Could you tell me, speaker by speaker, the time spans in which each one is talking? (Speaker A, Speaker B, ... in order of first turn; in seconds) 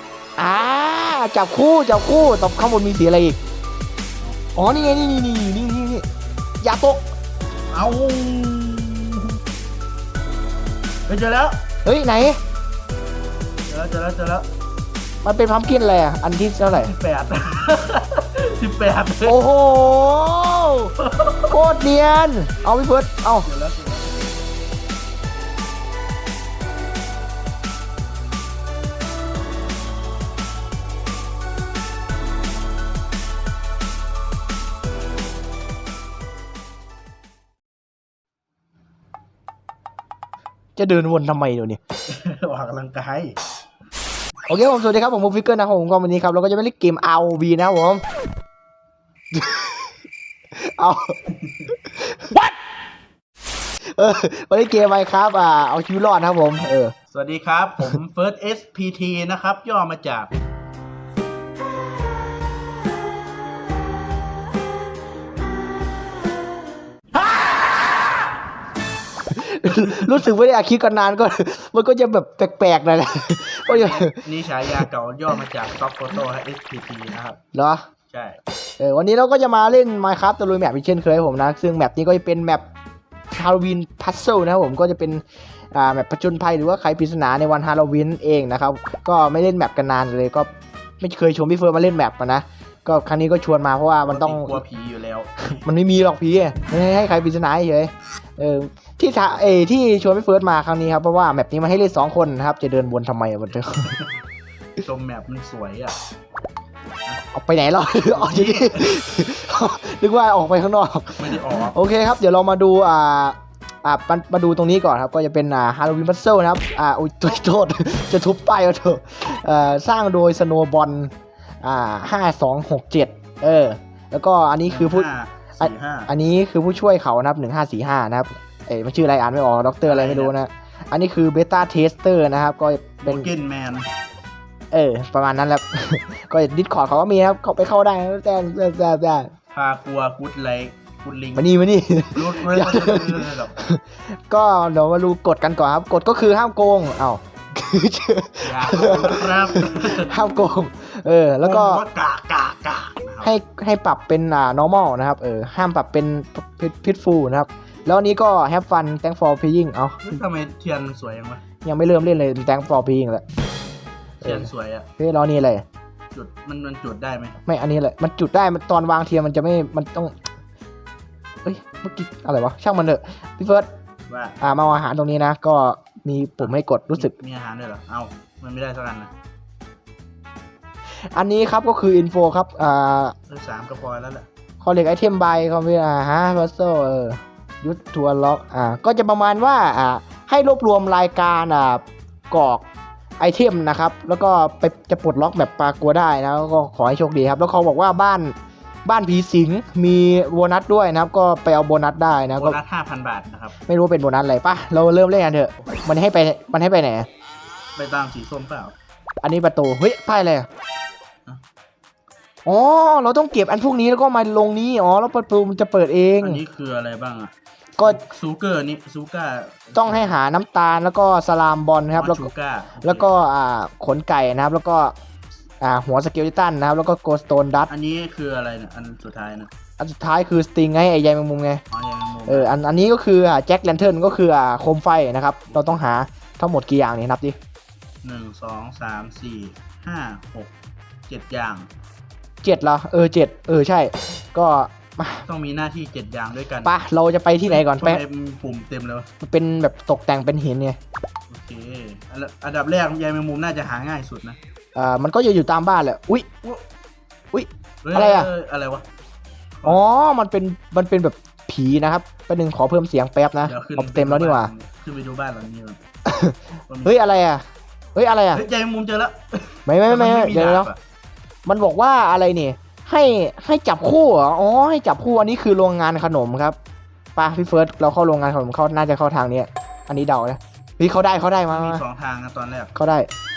Speaker A: 0.4-3.4, 4.6-6.0, 6.6-7.0, 11.8-12.4, 15.2-16.9, 19.2-20.9, 21.5-23.5, 40.8-41.8, 44.5-48.0, 49.3-49.9, 50.5-51.2, 51.9-52.4, 53.9-56.9, 69.3-74.2, 77.5-77.8, 78.8-82.6, 83.3-90.5, 91.0-94.6, 95.6-104.0, 107.3-125.1, 125.6-133.3, 134.7-139.3, 141.4-151.8, 153.2-160.2, 161.6-163.2, 165.0-165.7, 167.5-170.2, 171.4-173.7, 174.4-177.1, 181.1-183.2, 184.6-192.6, 193.2-202.6, 203.7-207.1, 209.2-210.5, 212.5-216.4, 217.8-218.0, 219.8-222.3, 222.8-224.9, 225.6-227.7, 229.8-231.6, 232.3-237.4, 242.4-245.2, 246.6-248.0, 249.2-250.8, 254.8-256.3, 257.3-258.3, 259.6-264.5, 266.1-267.4, 267.9-268.4, 269.7-270.7, 271.5-276.6, 277.2-281.8, 282.8-283.1
Speaker B: 7.7-9.4, 11.1-11.6, 13.7-14.5, 16.7-19.4, 21.0-21.5, 23.4-24.4, 42.1-43.4, 57.1-60.3, 69.7-70.2, 73.7-77.4, 78.1-78.4, 94.1-95.6, 104.8-106.0, 108.1-108.9, 111.2-111.8, 124.7-126.1, 129.8-130.4, 133.0-133.9, 139.5-141.5, 142.1-143.5, 148.4-150.1, 151.4-153.3, 160.0-161.4, 164.2-164.9, 166.1-167.4, 174.1-174.4, 176.4-179.1, 183.3-184.3, 202.4-203.6, 207.8-208.8, 216.2-220.1, 221.9-223.1, 227.7-229.5, 231.7-232.5, 238.0-240.5, 241.1-241.7, 245.3-246.7, 247.5-249.1, 251.3-254.4, 257.8-258.9, 259.6-259.8, 263.4-265.8, 266.7-267.0, 268.3-270.8, 281.5-282.7